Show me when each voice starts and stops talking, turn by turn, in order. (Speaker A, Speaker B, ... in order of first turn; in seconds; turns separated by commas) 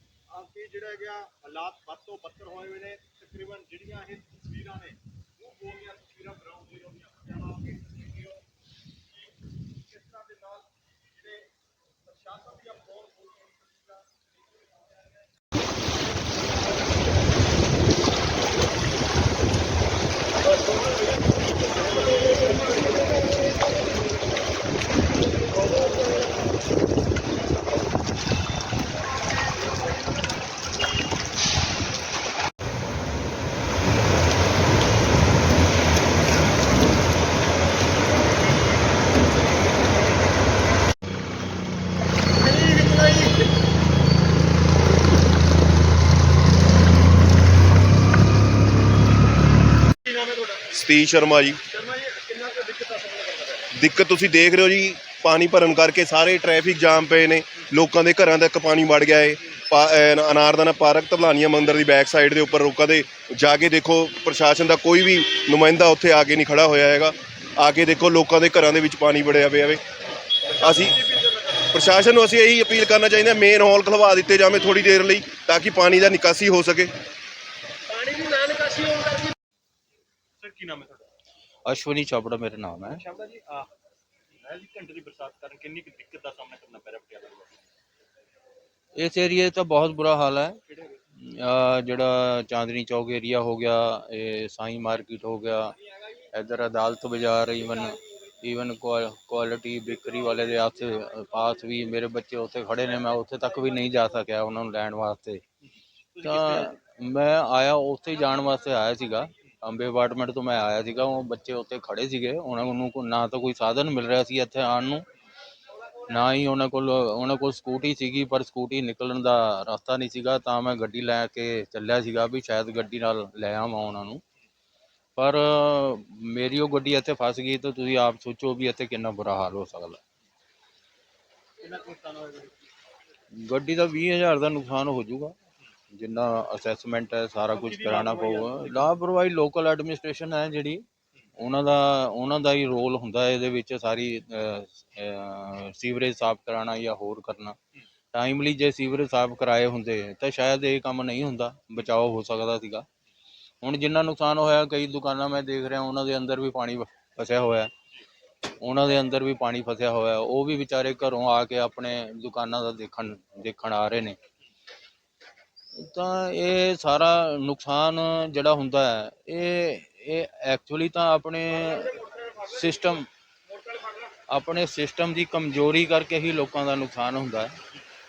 Speaker A: 0.3-8.4, Speaker A: 9.1-11.5, Speaker A: 12.0-15.2, Speaker A: 42.6-43.3, Speaker A: 50.0-50.6, Speaker B: 50.7-51.6, Speaker A: 51.7-53.6, Speaker B: 53.7-69.8, Speaker B: 70.6-71.0, Speaker A: 70.6-71.6, Speaker B: 71.7-76.9, Speaker A: 77.9-79.3, Speaker A: 80.4-81.1, Speaker C: 81.7-83.0, Speaker A: 82.9-83.7, Speaker A: 84.3-87.6, Speaker C: 88.9-90.6, Speaker A: 90.7-91.0, Speaker C: 91.2-105.4, Speaker A: 106.1-106.7, Speaker C: 106.2-115.0, Speaker C: 116.0-124.2, Speaker C: 125.2-130.0, Speaker A: 131.6-132.5, Speaker C: 133.3-135.3, Speaker C: 135.9-140.8, Speaker A: 137.5-138.9, Speaker C: 141.4-147.6, Speaker C: 148.1-152.8, Speaker C: 153.6-157.7, Speaker C: 158.6-164.2, Speaker C: 165.7-173.1, Speaker C: 174.3-177.6